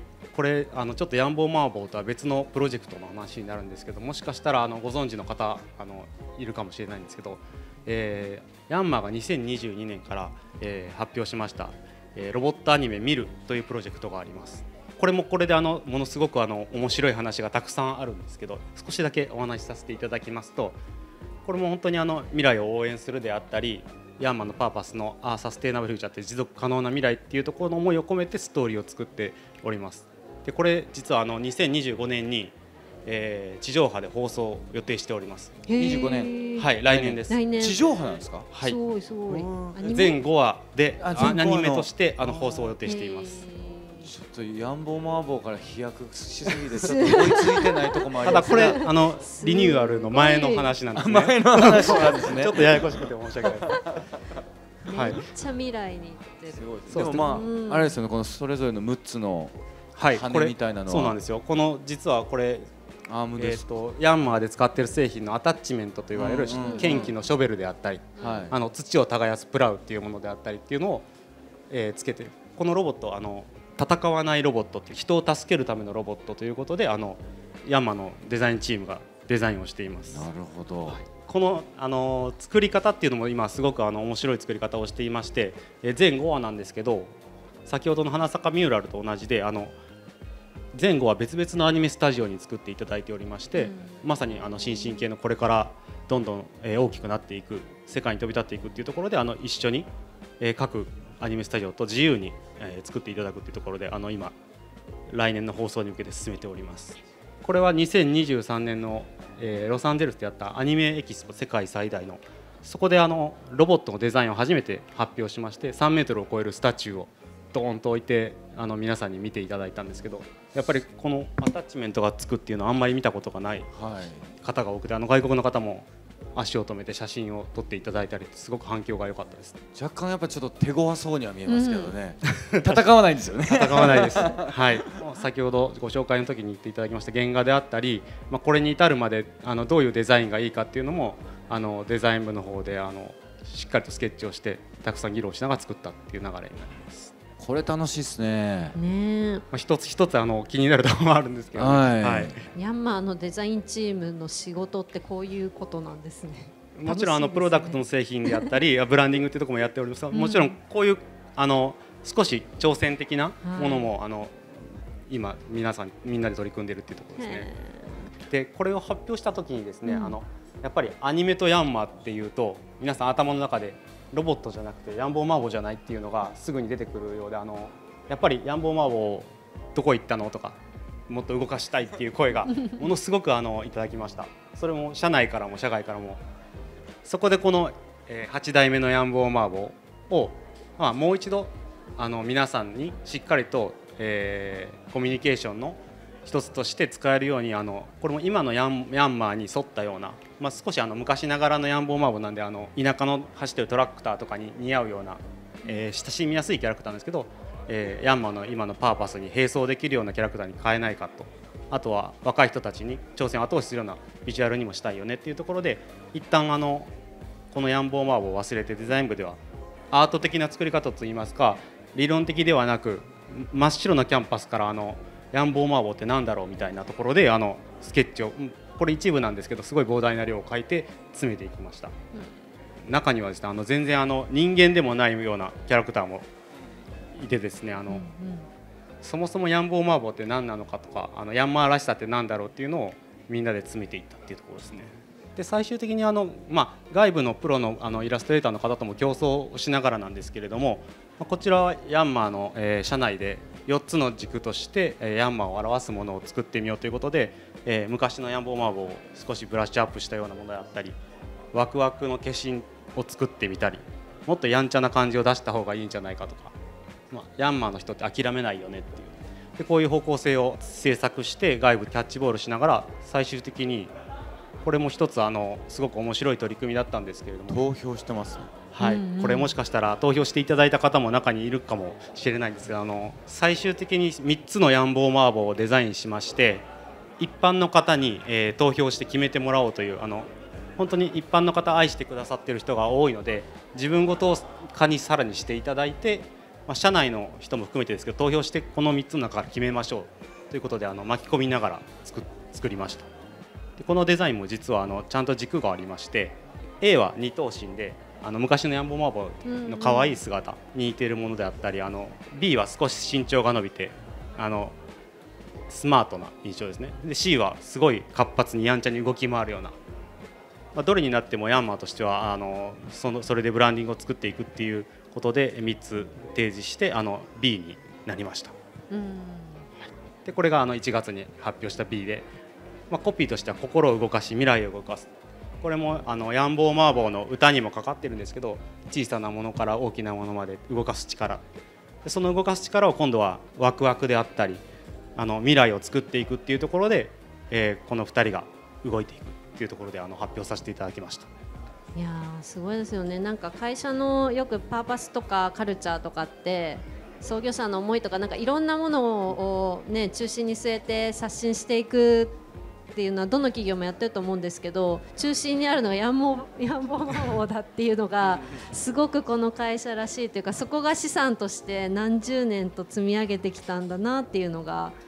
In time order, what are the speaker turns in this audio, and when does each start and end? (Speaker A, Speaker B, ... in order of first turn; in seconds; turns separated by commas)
Speaker A: 0.3-20.8, Speaker A: 21.4-32.5, Speaker A: 33.0-35.6, Speaker B: 35.7-36.8, Speaker C: 35.7-36.3, Speaker A: 36.5-37.4, Speaker C: 36.8-38.5, Speaker B: 37.3-37.8, Speaker A: 38.5-38.8, Speaker B: 38.6-40.2, Speaker C: 39.3-40.0, Speaker A: 39.9-43.5, Speaker C: 41.0-42.7, Speaker B: 42.8-44.1, Speaker C: 44.0-48.8, Speaker B: 46.5-50.7, Speaker A: 48.2-53.8, Speaker C: 51.0-54.0, Speaker B: 51.8-52.2, Speaker B: 54.9-58.0, Speaker A: 54.9-55.2, Speaker C: 56.5-59.5, Speaker A: 56.9-57.4, Speaker A: 60.0-62.7, Speaker C: 60.1-61.1, Speaker C: 63.1-63.7, Speaker A: 63.4-71.1, Speaker C: 66.2-67.1, Speaker B: 66.6-67.2, Speaker B: 68.2-68.5, Speaker C: 68.2-68.5, Speaker A: 71.7-80.3, Speaker C: 80.1-81.0, Speaker A: 80.9-87.1, Speaker A: 87.7-89.7, Speaker A: 90.7-99.9, Speaker B: 93.5-95.0, Speaker A: 100.4-104.3, Speaker A: 105.1-123.7, Speaker C: 123.7-124.3, Speaker A: 124.4-129.6, Speaker C: 129.7-134.8, Speaker B: 131.5-131.9, Speaker A: 132.4-132.8, Speaker A: 133.5-147.1, Speaker C: 147.4-148.8, Speaker B: 148.7-149.4, Speaker A: 149.5-152.4, Speaker C: 151.6-152.4, Speaker B: 152.5-157.8, Speaker A: 156.7-167.5, Speaker B: 160.1-160.6, Speaker B: 163.4-163.9, Speaker B: 167.2-168.1, Speaker A: 168.2-180.6, Speaker B: 169.8-170.2, Speaker A: 181.1-186.2, Speaker A: 187.0-216.9, Speaker A: 217.5-219.4, Speaker A: 219.9-231.9, Speaker A: 232.8-236.3, Speaker A: 237.1-238.1, Speaker B: 237.9-238.5, Speaker A: 239.0-261.0, Speaker A: 261.5-266.5, Speaker A: 267.1-273.9, Speaker A: 274.6-277.6, Speaker C: 277.5-278.5, Speaker A: 278.7-286.6, Speaker B: 278.8-279.5, Speaker A: 287.2-303.1, Speaker A: 303.8-314.8, Speaker B: 309.4-310.2, Speaker A: 315.7-319.8, Speaker A: 320.7-328.5, Speaker B: 328.9-329.6, Speaker A: 330.2-332.3, Speaker A: 332.9-335.1, Speaker A: 335.6-341.4, Speaker A: 342.0-344.6, Speaker A: 345.1-351.3, Speaker B: 351.9-362.4, Speaker B: 362.9-375.0